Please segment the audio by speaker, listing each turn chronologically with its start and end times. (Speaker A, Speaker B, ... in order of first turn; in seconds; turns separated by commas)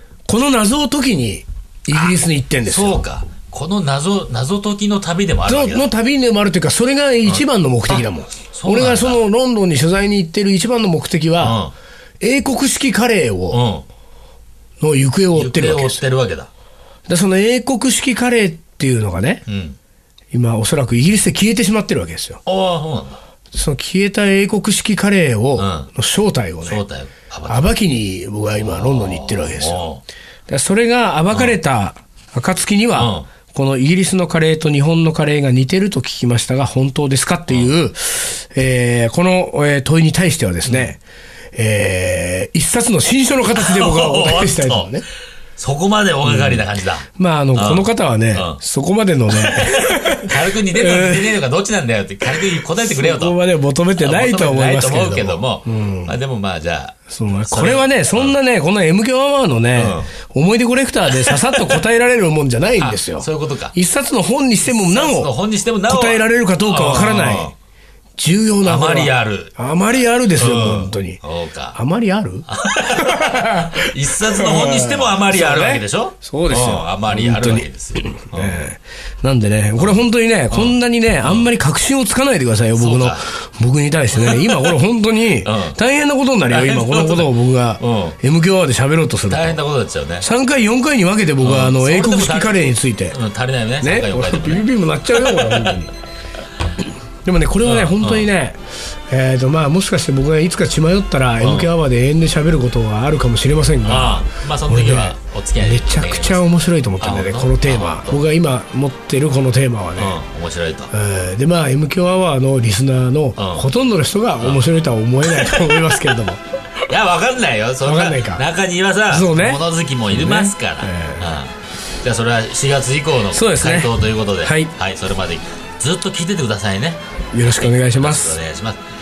Speaker A: 0.3-3.0, Speaker B: 2.7-5.9, Speaker A: 5.5-11.6, Speaker B: 7.2-9.2, Speaker B: 11.4-11.7, Speaker A: 12.2-13.6, Speaker B: 13.5-13.8, Speaker A: 14.8-16.0, Speaker B: 15.3-16.5, Speaker A: 17.1-19.4, Speaker B: 19.5-19.8, Speaker A: 20.3-22.4, Speaker B: 22.5-23.2, Speaker A: 23.5-26.8, Speaker B: 25.6-25.9, Speaker B: 26.6-27.8, Speaker A: 27.5-29.8, Speaker B: 28.5-30.0, Speaker A: 30.5-41.0, Speaker B: 31.3-31.6, Speaker B: 33.0-33.3, Speaker B: 37.5-37.7, Speaker B: 40.6-40.9, Speaker A: 41.5-45.0, Speaker B: 43.5-45.0, Speaker B: 45.6-48.6, Speaker A: 46.2-51.4, Speaker B: 49.3-53.4, Speaker A: 52.3-56.1, Speaker B: 54.0-58.4, Speaker A: 57.1-65.3, Speaker B: 59.8-60.1, Speaker B: 61.1-61.8, Speaker B: 62.8-63.8, Speaker B: 64.6-67.5, Speaker A: 65.9-67.5, Speaker A: 68.2-71.2, Speaker B: 68.7-69.6, Speaker B: 70.3-71.8, Speaker A: 71.7-89.6, Speaker B: 72.5-78.6, Speaker B: 80.5-81.5, Speaker B: 82.8-83.3, Speaker B: 84.2-84.7, Speaker B: 85.4-85.8, Speaker B: 86.5-88.2, Speaker B: 89.3-90.3, Speaker A: 90.2-93.2, Speaker B: 91.4-95.7, Speaker A: 93.8-95.9, Speaker A: 96.8-110.2, Speaker B: 97.6-98.3, Speaker B: 101.4-101.7, Speaker B: 103.8-108.2, Speaker B: 110.0-110.9, Speaker A: 110.9-116.4, Speaker B: 113.4-113.7, Speaker B: 115.3-116.0, Speaker B: 116.8-128.8, Speaker A: 117.8-118.4, Speaker A: 119.1-121.3, Speaker A: 123.3-124.7, Speaker A: 127.3-128.4